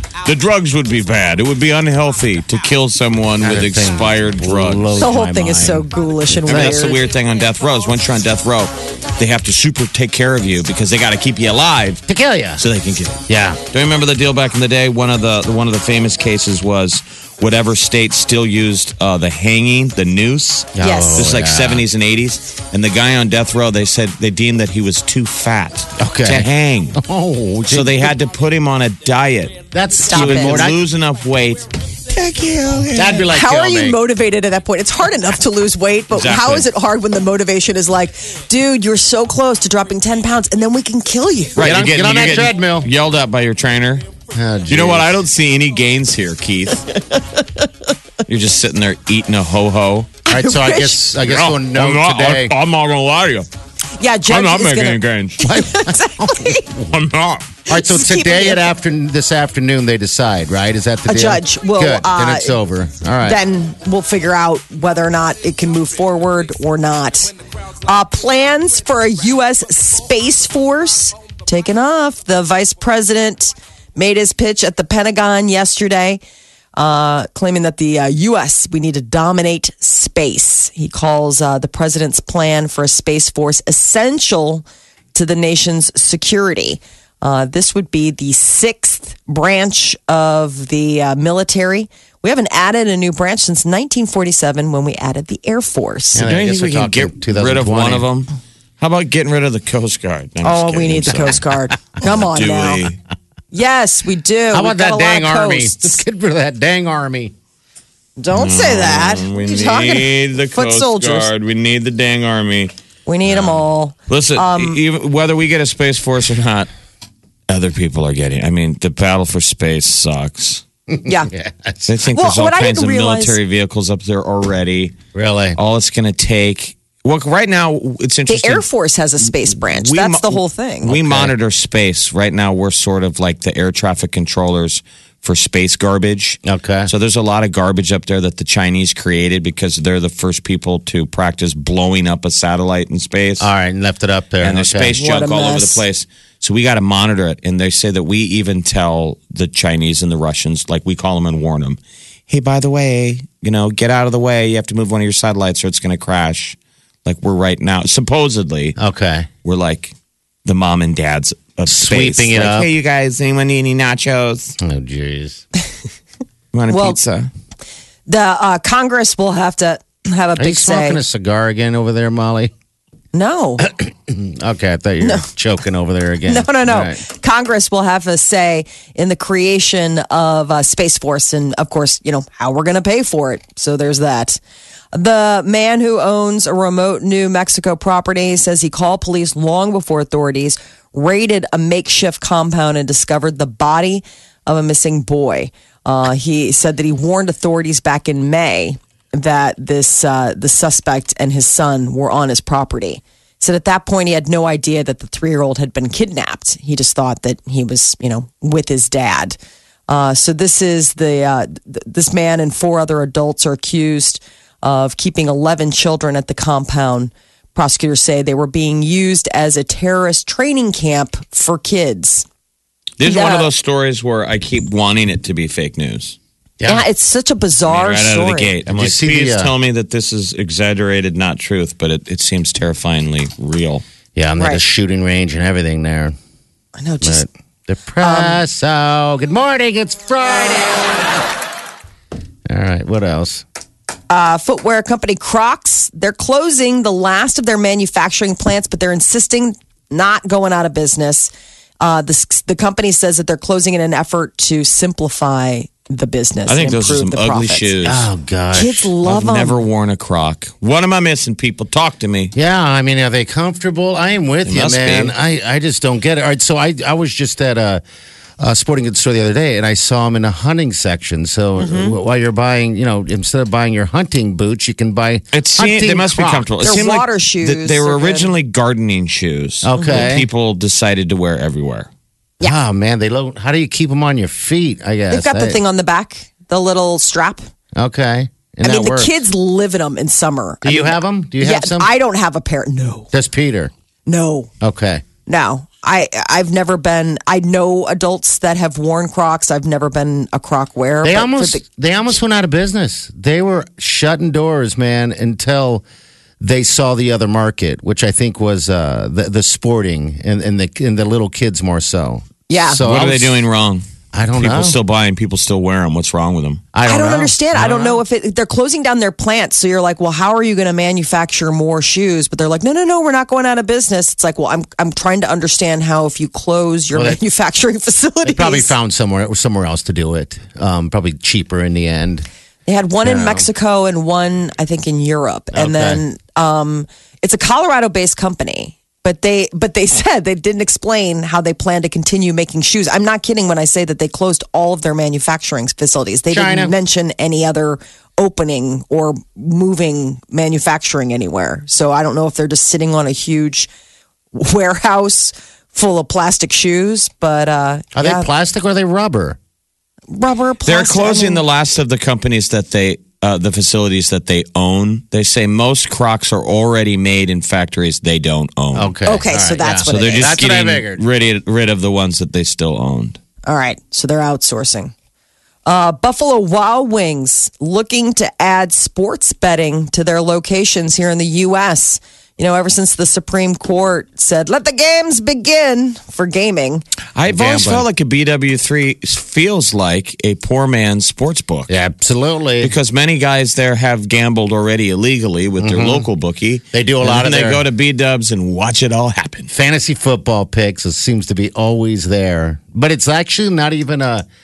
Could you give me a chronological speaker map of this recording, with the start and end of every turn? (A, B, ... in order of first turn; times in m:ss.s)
0:00.2-0:05.1 A
0:03.4-0:06.9 B
0:05.0-0:07.0 C
0:06.4-0:12.0 A
0:12.1-0:12.6 B
0:12.6-0:27.0 A
0:13.3-0:13.6 B
0:20.7-0:21.8 B
0:20.8-0:21.3 C
0:26.0-0:28.2 B
0:27.7-0:33.3 A
0:29.7-0:30.8 B
0:30.0-0:30.6 C
0:32.9-0:34.0 B
0:33.3-0:41.6 C
0:36.1-0:36.7 A
0:41.5-0:44.1 A
0:41.6-0:42.9 B
0:44.3-0:45.2 B
0:44.7-0:46.9 A
0:47.0-0:47.6 C
0:48.3-0:50.2 A
0:50.2-0:51.0 C
0:50.2-0:52.6 B
0:51.2-0:53.5 A
0:54.0-0:56.7 C
0:54.3-0:55.5 A
0:55.4-0:57.0 B
0:56.9-0:57.5 A
0:57.7-1:03.4 B
0:57.7-0:58.7 C
1:01.0-1:02.6 C
1:03.2-1:07.3 C
1:07.8-1:16.2 C
1:16.8-1:36.2 C
1:36.1-1:38.0 B
1:36.2-1:41.4 A
1:40.4-1:42.9 C
1:42.0-1:43.0 A
1:43.5-1:46.0 C
1:44.5-1:47.3 B
1:48.2-1:51.3 C
1:48.3-1:52.7 A
1:53.0-1:54.8 C
1:53.3-1:53.6 B
1:54.1-1:56.7 A
1:57.5-2:00.6 A
2:00.9-2:01.9 B
2:01.9-2:05.0 A
2:02.1-2:03.4 C
2:05.1-2:05.6 B
2:05.5-2:08.6 A
2:08.3-2:10.9 C
2:09.2-2:23.5 A
2:10.8-2:11.3 B
2:16.4-2:16.9 B
2:23.4-2:25.0 B
2:24.4-2:31.8 A
2:25.0-2:25.8 C
2:32.3-2:38.8 A
2:38.8-2:39.3 B
2:39.4-2:39.9 A
2:40.4-2:44.6 A
2:41.7-2:42.7 B
2:44.6-2:45.4 B
2:46.5-2:47.3 A
2:46.7-2:47.0 C
2:48.1-2:51.0 C
2:50.4-2:52.5 B
2:53.1-2:53.7 C
2:53.6-2:57.0 B
2:56.3-3:04.4 C
3:04.9-3:29.4 C
3:29.9-3:42.2 C
3:43.0-3:46.2 A
3:43.0-3:43.5 C
3:46.6-3:46.8 B
3:46.7-3:48.5 C
3:47.7-3:53.8 A
3:48.7-3:49.5 B
3:54.2-3:56.1 B
3:56.8-3:57.2 C
3:57.0-4:01.0 B
3:58.0-3:58.4 C
4:02.5-4:03.4 B
4:04.1-4:17.7 C
4:16.5-4:18.1 A
4:17.8-4:18.9 B
4:18.5-4:19.6 C
4:19.0-4:22.3 A
4:22.3-4:27.8 B
4:24.4-4:25.1 A
4:28.4-4:36.5 B
4:31.6-4:32.0 C
4:35.3-4:41.9 A
4:36.6-4:38.3 C
4:39.6-4:40.3 B
4:42.4-4:45.6 B
4:45.1-4:47.4 C
4:47.7-4:49.1 B
4:48.6-4:53.1 C
4:50.6-4:51.9 B
4:53.1-4:53.7 B
4:54.1-4:54.5 C
4:54.6-4:55.0 B
4:55.3-5:01.6 C
5:01.0-5:05.8 B
5:06.4-5:13.4 B
5:12.5-5:12.8 C
5:12.8-5:13.8 A
5:14.1-5:14.8 B
5:14.4-5:16.6 A
5:16.7-5:18.0 B
5:16.8-5:28.7 C
5:26.9-5:27.2 B
5:28.2-5:32.3 B
5:32.6-5:53.7 C
5:33.0-5:33.4 B
5:35.5-5:36.0 B
5:46.3-5:46.7 B
5:54.3-5:58.3 C
5:57.9-5:59.4 B
6:00.1-6:01.4 C
6:00.6-6:08.9 A
6:08.7-6:11.0 B
6:09.0-6:10.4 C
6:09.9-6:13.2 A
6:13.4-6:14.9 C
6:15.6-6:26.8 C
6:27.1-6:31.7 A
6:27.3-6:27.8 B
6:31.7-6:32.7 B
6:32.6-6:39.5 A
6:35.6-6:36.1 B
6:36.7-6:37.6 B
6:39.5-6:44.2 B